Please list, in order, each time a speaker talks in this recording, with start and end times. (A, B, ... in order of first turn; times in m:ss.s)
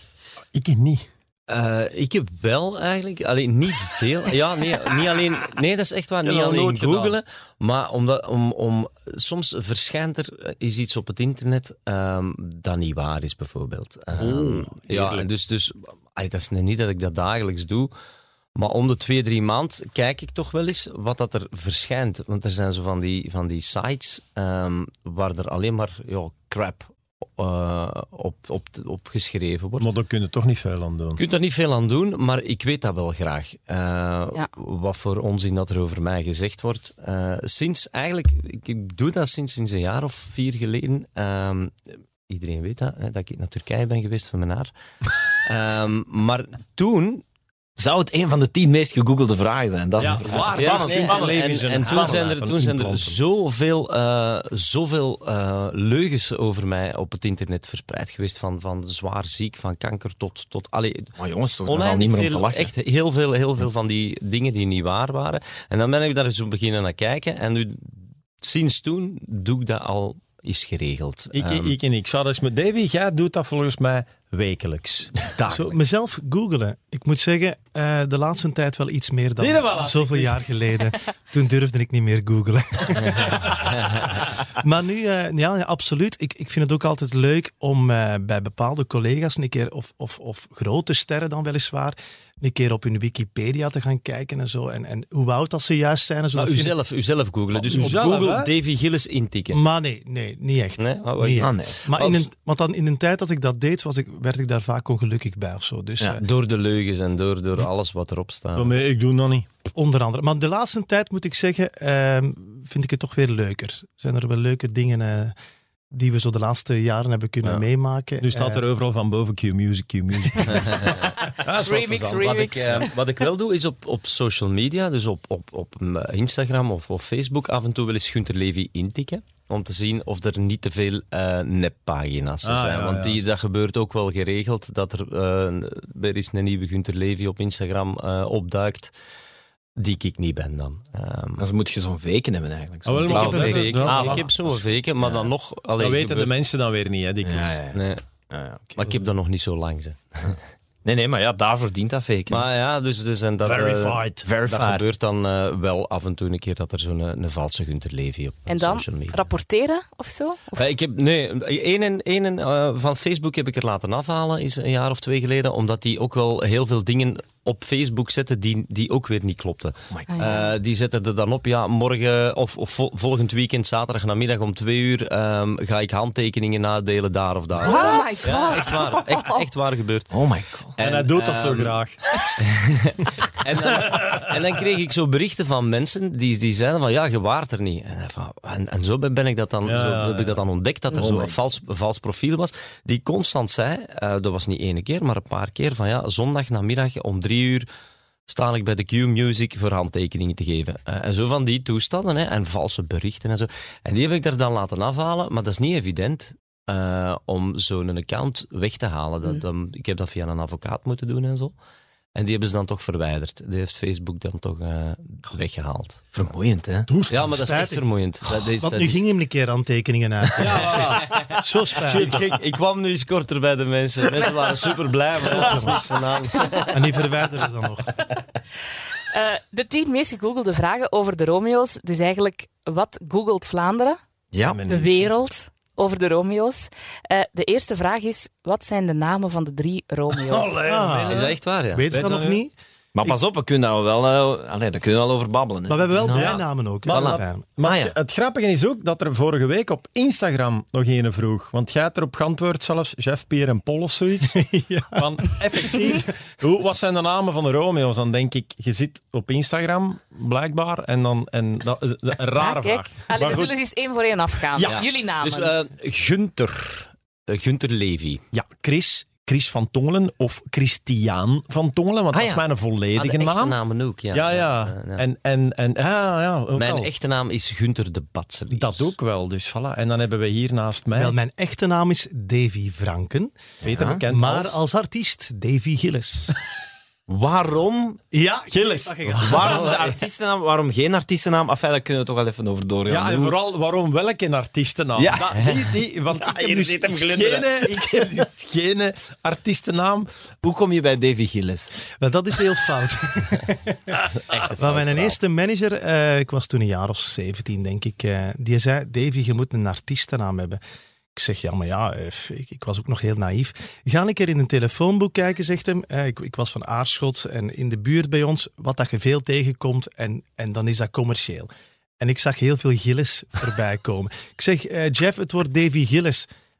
0:00.5-0:01.1 A
0:01.5-0:17.9 B
0:06.2-0:07.2 A
0:14.2-0:15.3 A
0:18.5-0:29.9 B
0:29.8-0:31.2 A
0:31.2-0:44.7 B
0:45.3-0:47.2 B
0:47.8-0:52.3 C
0:50.0-0:53.2 A
0:50.5-1:01.1 B
1:01.2-1:02.7 C
1:01.6-1:11.8 B
1:11.3-1:15.3 A
1:15.3-1:15.8 C
1:15.5-1:36.7 D
1:19.4-1:20.5 A
1:23.8-1:24.0 B
1:36.3-1:39.6 B
1:37.6-1:38.5 A
1:39.5-1:46.2 D
1:40.8-1:42.2 B
1:41.4-1:41.8 C
1:46.1-1:48.7 B
1:48.6-1:49.5 A
1:49.8-1:55.3 D
1:55.9-1:58.6 D
1:58.2-2:02.7 A
2:00.4-2:01.1 B
2:01.2-2:02.9 E
2:02.2-2:18.9 B
2:12.4-2:13.2 A
2:19.8-2:21.4 B
2:21.4-2:24.3 C
2:22.8-2:24.3 A
2:23.0-2:26.3 B
2:25.0-2:25.3 C
2:25.8-2:27.6 A
2:27.2-2:28.9 C
2:27.7-2:28.0 B
2:28.8-2:30.4 B
2:30.8-2:32.4 C
2:32.3-2:39.2 B
2:33.4-2:34.2 A
2:34.2-2:34.8 C
2:38.5-2:40.6 E
2:40.5-3:00.1 B
2:49.9-2:50.4 C
2:50.1-2:50.4 E
2:57.6-2:59.4 E
2:57.9-2:58.2 C
3:00.1-3:00.8 C
3:00.8-3:01.8 B
3:00.8-3:02.0 A
3:02.4-3:17.7 B
3:03.6-3:04.3 A
3:09.6-3:10.4 A
3:10.9-3:11.4 C
3:18.3-3:31.5 B
3:32.1-3:36.1 B
3:36.1-3:36.9 C
3:36.9-3:37.3 A
3:37.1-3:39.0 B
3:37.1-3:42.2 D
3:40.4-3:41.1 A
3:40.6-3:46.9 B
3:41.9-3:42.2 A
3:45.2-3:45.9 D
3:46.5-3:48.0 D
3:49.0-3:54.0 E
3:54.3-3:54.6 C
3:54.4-3:55.1 A
3:54.7-4:00.6 E
4:00.1-4:02.4 A
4:00.6-4:03.2 D
4:01.1-4:02.1 B
4:02.9-4:07.9 C
4:05.7-4:07.5 D
4:06.0-4:23.5 A
4:14.3-4:15.0 D
4:15.6-4:16.0 D
4:22.3-4:25.5 E
4:24.6-4:28.2 B
4:28.3-4:33.6 A
4:32.1-4:32.4 C
4:33.0-4:35.0 B
4:34.1-4:36.9 A
4:36.5-4:38.9 B
4:38.5-4:41.2 A
4:41.0-4:43.4 D
4:43.6-4:44.0 C
4:43.6-4:44.6 A
4:44.1-4:46.4 D
4:47.1-4:48.0 C
4:48.1-4:49.8 D
4:48.5-4:49.5 A
4:49.2-4:50.0 B
4:49.2-4:53.4 C
4:52.9-5:00.1 A
4:55.0-4:55.4 C
4:56.0-4:58.3 C
5:00.4-5:01.7 C
5:01.9-5:10.6 D
5:04.2-5:05.1 B
5:04.4-5:05.0 C
5:11.1-5:21.5 D
5:22.0-5:26.3 D